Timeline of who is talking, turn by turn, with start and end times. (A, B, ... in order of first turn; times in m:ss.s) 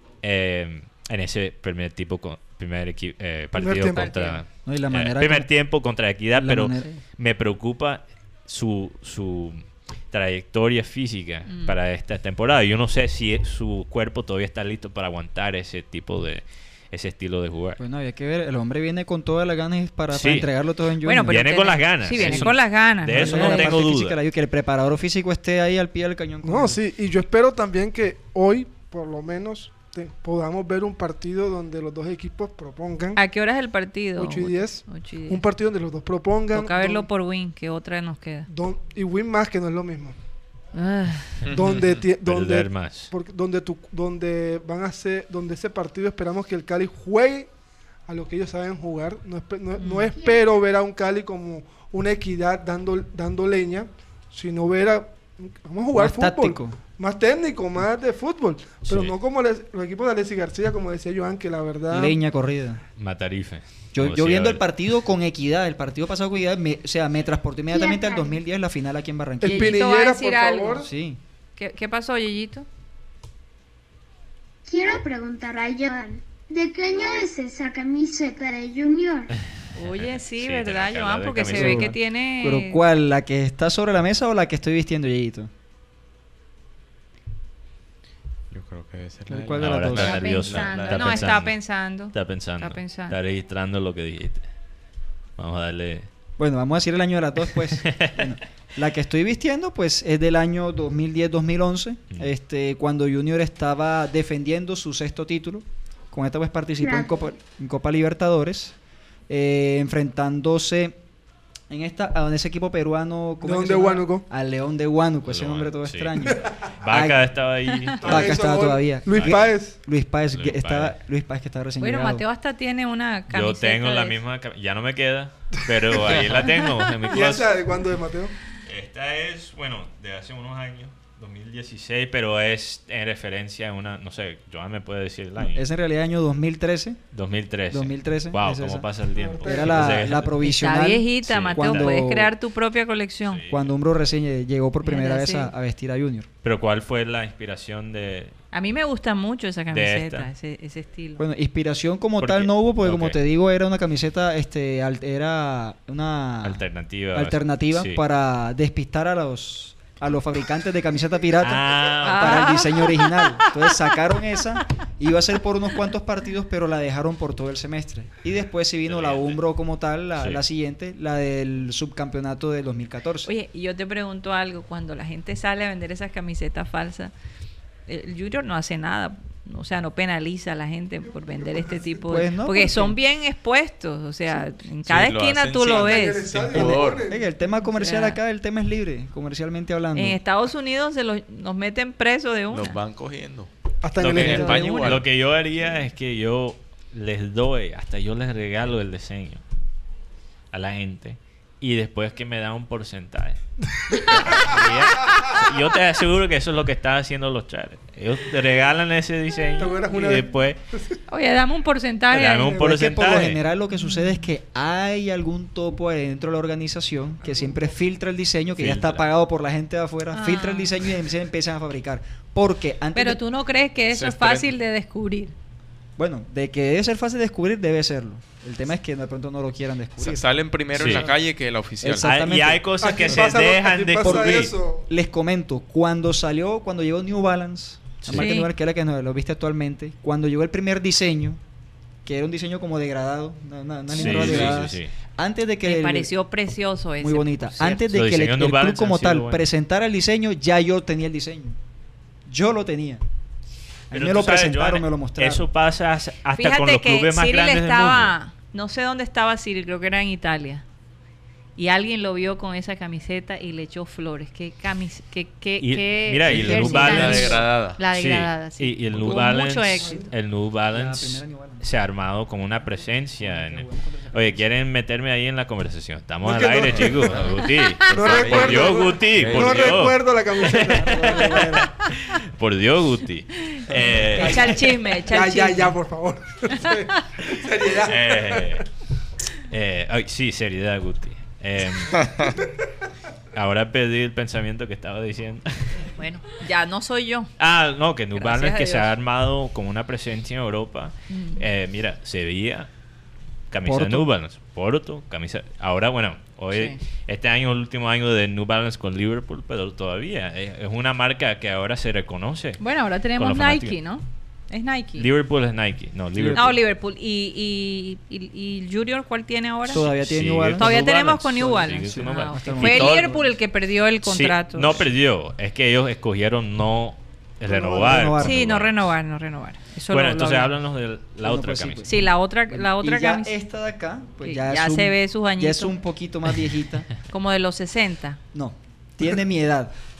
0:00.2-0:17.8 A
0:03.6-0:04.2 B
0:03.9-0:04.4 C
0:04.6-0:06.9 D
0:11.5-0:11.8 C
0:17.8-0:26.8 D
0:20.1-0:20.5 A
0:21.0-0:23.8 C
0:21.3-0:24.2 A
0:26.4-0:33.2 B
0:33.2-0:35.4 C
0:34.2-0:37.1 B
0:36.5-0:38.5 C
0:38.5-0:40.2 B
0:40.7-0:41.5 C
0:41.5-0:47.5 B
0:42.1-0:43.1 A
0:48.1-1:02.2 B
0:49.8-0:50.1 C
0:55.9-0:56.8 D
0:58.9-0:59.1 A
1:01.9-1:02.8 D
1:03.0-1:04.6 A
1:03.9-1:09.8 D
1:07.7-1:08.4 E
1:09.4-1:10.9 B
1:09.4-1:10.9 C
1:10.8-1:11.2 D
1:11.6-1:12.7 C
1:14.7-1:19.3 E
1:19.8-1:22.8 C
1:19.8-1:22.0 A
1:21.5-1:25.5 D
1:28.5-1:31.1 F
1:29.3-1:30.4 D
1:29.6-1:34.5 A
1:30.0-1:33.2 C
1:35.4-1:36.1 A
1:36.4-1:48.8 D
1:37.8-1:38.1 A
1:46.8-1:47.4 E
1:49.3-1:51.0 D
1:51.7-1:57.2 D
1:53.4-1:54.2 B
1:55.3-1:56.2 A
1:56.8-1:58.4 A
1:58.0-2:02.2 D
1:58.0-1:59.8 B
1:59.1-1:59.5 A
2:00.3-2:01.0 A
2:01.8-2:04.2 C
2:03.3-2:07.6 A
2:06.4-2:06.9 C
2:07.1-2:08.4 B
2:08.7-2:15.6 A
2:15.4-2:17.0 D
2:17.1-2:20.4 A
2:17.7-2:18.9 D
2:19.1-2:20.2 B
2:19.4-2:22.3 D
2:20.4-2:23.4 C
2:21.3-2:22.0 A
2:23.3-2:23.7 A
2:23.5-2:26.3 D
2:24.8-2:25.5 C
2:26.4-2:28.4 A
2:28.5-2:31.2 C
2:29.7-2:30.3 A
2:31.2-2:36.6 D
2:32.2-2:33.2 A
2:36.4-2:38.0 A
2:37.2-2:53.3 D
2:41.4-2:42.6 A
2:42.0-2:43.7 C
2:48.9-2:49.4 A
2:53.2-2:57.1 C
2:57.9-3:06.3 C
3:02.1-3:03.0 D
3:04.8-3:07.1 F
3:05.8-3:07.2 B
3:06.5-3:10.2 D
3:07.6-3:08.2 C
3:10.0-3:12.8 C
3:12.5-3:15.1 F
3:13.8-3:14.9 B
3:14.0-3:19.4 A
3:14.2-3:15.0 C
3:20.5-3:23.4 A
3:24.1-3:30.6 A
3:29.6-3:30.4 B
3:31.1-3:32.7 C
3:32.1-3:33.4 A
3:32.6-3:43.2 D
3:33.7-3:34.3 C
3:37.3-3:37.7 B
3:38.6-3:39.0 A
3:40.1-3:40.8 C
3:43.0-3:45.3 C
3:43.9-3:44.5 F
3:46.0-3:51.2 D
3:50.0-3:52.2 F
3:50.8-3:51.1 A
3:51.8-3:53.2 D
3:52.0-3:54.5 A
3:52.8-3:54.8 B
3:54.0-4:01.4 D
3:58.1-3:58.5 C
4:02.0-4:06.1 D
4:03.9-4:04.9 A
4:04.0-4:04.4 C
4:05.6-4:07.8 C
4:07.0-4:11.6 D
4:07.9-4:09.4 A
4:12.3-4:13.0 D
4:13.9-4:15.4 D
4:13.9-4:18.1 A
4:16.3-4:20.6 C
4:21.6-4:30.1 C
4:25.6-4:44.6 A
4:26.3-4:27.9 F
4:26.4-4:27.2 D
4:30.7-4:31.6 D
4:33.2-4:34.4 D
4:36.2-4:37.3 B
4:36.8-4:37.3 F
4:37.9-4:41.7 B
4:38.0-4:39.9 F
4:43.5-4:45.8 C
4:44.1-4:48.6 B
4:47.8-4:48.6 A
4:49.5-4:52.3 A
4:53.3-4:55.8 A
4:56.0-4:57.3 C
4:57.4-5:02.7 A
4:58.2-4:59.0 C
5:01.1-5:01.4 C
5:03.5-5:13.8 A
5:03.6-5:04.1 D
5:06.5-5:06.8 C
5:12.6-5:15.1 C
5:15.0-5:16.6 A
5:16.3-5:19.9 C
5:19.7-5:20.7 D
5:19.7-5:23.3 A
5:20.6-5:24.9 C
5:21.8-5:23.2 D
5:24.0-5:28.8 A
5:27.5-5:28.4 D
5:28.2-5:30.5 C
5:29.9-5:31.9 A
5:31.2-5:36.9 D
5:31.8-5:33.3 C
5:34.2-5:35.7 C
5:37.1-5:38.2 C
5:38.3-5:39.7 D